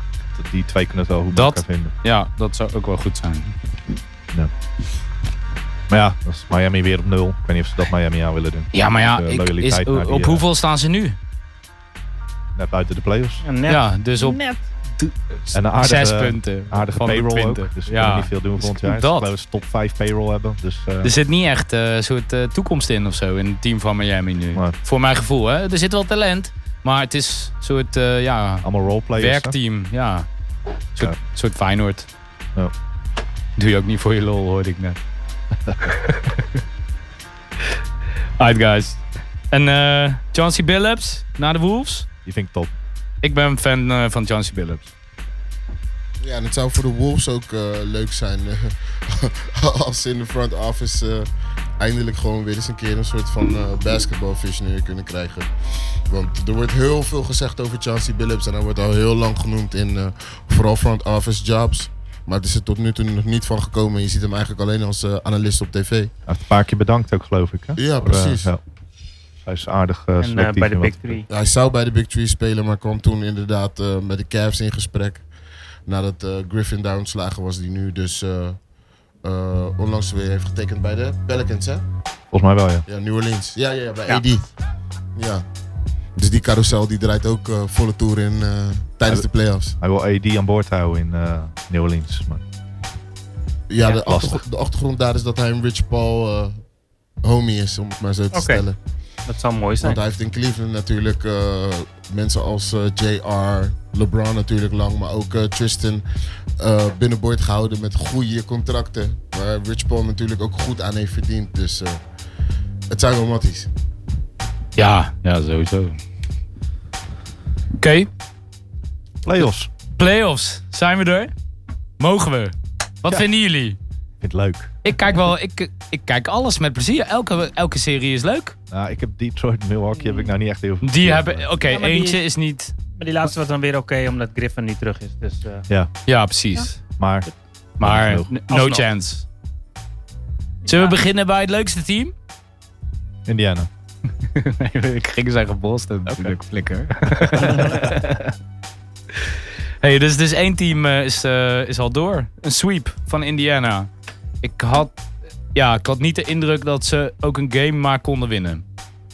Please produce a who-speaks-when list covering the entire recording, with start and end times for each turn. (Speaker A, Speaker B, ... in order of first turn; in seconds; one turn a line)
Speaker A: 0.3-1.9
Speaker B: 1.3-3.5
Speaker A: 5.9-10.4
Speaker B: 8.7-11.2
Speaker A: 12.5-13.4
Speaker C: 13.4-14.6
Speaker B: 13.7-14.4
Speaker B: 15.0-19.3
Speaker A: 15.5-21.1
Speaker B: 21.0-30.3
Speaker A: 28.6-29.6
Speaker B: 30.9-32.1
Speaker B: 33.5-35.0
Speaker B: 35.8-36.6
Speaker B: 38.4-42.1
Speaker A: 42.2-42.7
Speaker B: 43.2-44.9
Speaker D: 46.2-66.1
Speaker A: 66.3-68.6
Speaker D: 67.8-68.5
Speaker A: 69.4-71.2
Speaker C: 70.2-71.3
Speaker D: 71.3-75.2
Speaker D: 75.8-78.6
Speaker D: 79.2-81.8
Speaker A: 82.3-82.8
Speaker D: 82.8-84.5
Speaker D: 85.1-85.4
Speaker D: 86.2-89.7
Speaker A: 89.8-92.4
Speaker D: 93.7-96.6
Speaker A: 94.0-94.4
Speaker D: 97.2-98.8
Speaker C: 98.3-98.6
Speaker C: 99.3-100.0
Speaker D: 99.8-106.0
Speaker D: 106.6-112.0
Speaker D: 112.9-113.7
Speaker B: 114.8-116.0
Speaker B: 117.8-118.1
Speaker A: 119.2-119.7
Speaker B: 119.4-121.3
Speaker B: 122.0-123.8
Speaker A: 124.2-124.7
Speaker B: 124.8-128.6
Speaker A: 128.7-131.5
Speaker C: 129.9-130.3
Speaker B: 130.8-132.7
Speaker C: 131.6-132.2
Speaker C: 132.9-135.7
Speaker B: 136.1-136.8
Speaker A: 137.0-137.3
Speaker B: 137.8-139.2
Speaker A: 137.8-138.3
Speaker C: 138.5-138.8
Speaker C: 140.6-141.0
Speaker B: 140.7-142.1
Speaker A: 143.2-143.7
Speaker B: 144.2-148.3
Speaker A: 146.1-146.3
Speaker C: 147.4-147.8
Speaker B: 149.8-153.9
Speaker B: 154.4-155.0
Speaker B: 155.5-158.6